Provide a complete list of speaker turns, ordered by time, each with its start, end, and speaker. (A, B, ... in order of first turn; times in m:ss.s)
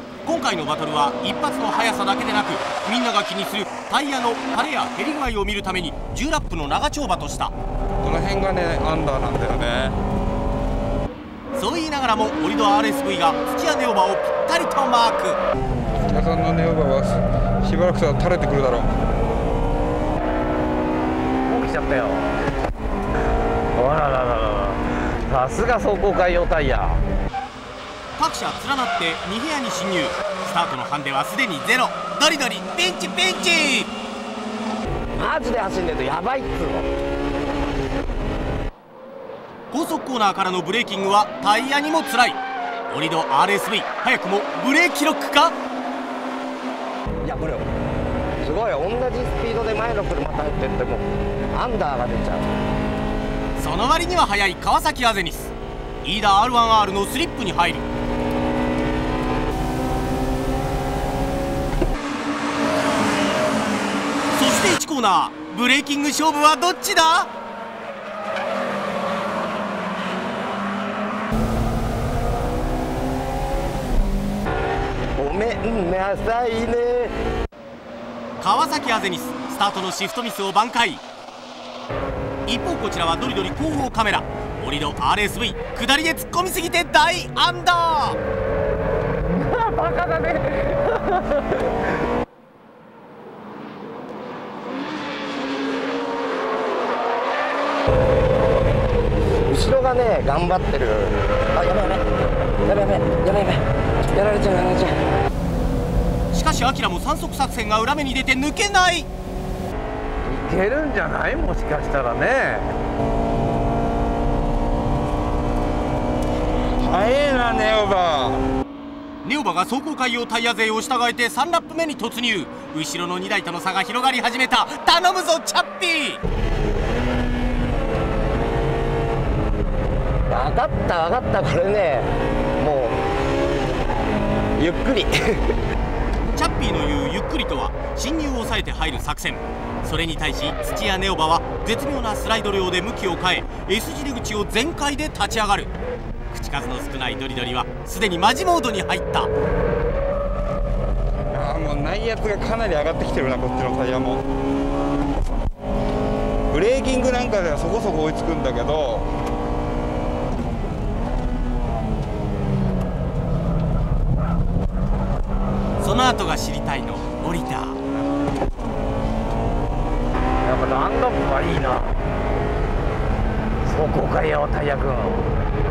0:00.2-0:07.5 A
0:08.0-0:10.0 B
0:11.6-0:15.4 A
0:16.1-0:18.9 B
0:21.7-0:22.0 C
0:24.1-0:24.5 C
0:25.5-0:27.0 D
0:26.2-0:26.6 C
0:28.2-0:33.9 A
0:35.2-0:36.9 D
0:39.7-0:45.6 A
0:47.2-0:47.7 D
0:48.4-0:52.5 D
0:53.6-0:55.5 A
0:56.0-0:57.9 A
1:04.3-1:07.3 A
1:15.2-1:17.2 D
1:18.4-1:21.0 A
1:22.5-1:28.2 A
1:29.2-1:31.7 C
1:39.5-1:42.1 D
1:42.6-1:45.0 D
1:46.3-1:49.1 A
1:50.4-1:51.0 D
1:50.6-1:52.6 C
1:56.8-1:58.4 B
1:59.2-2:06.2 A
2:10.3-2:13.0 D
2:14.6-2:15.6 D
2:16.2-2:25.7 A
2:26.3-2:29.3 A
2:31.3-2:34.2 B
2:36.5-2:39.1 B
2:45.8-2:47.8 A
2:50.5-2:51.8 C
2:50.6-2:51.6 D
2:53.7-2:54.7 C
2:53.8-2:55.3 D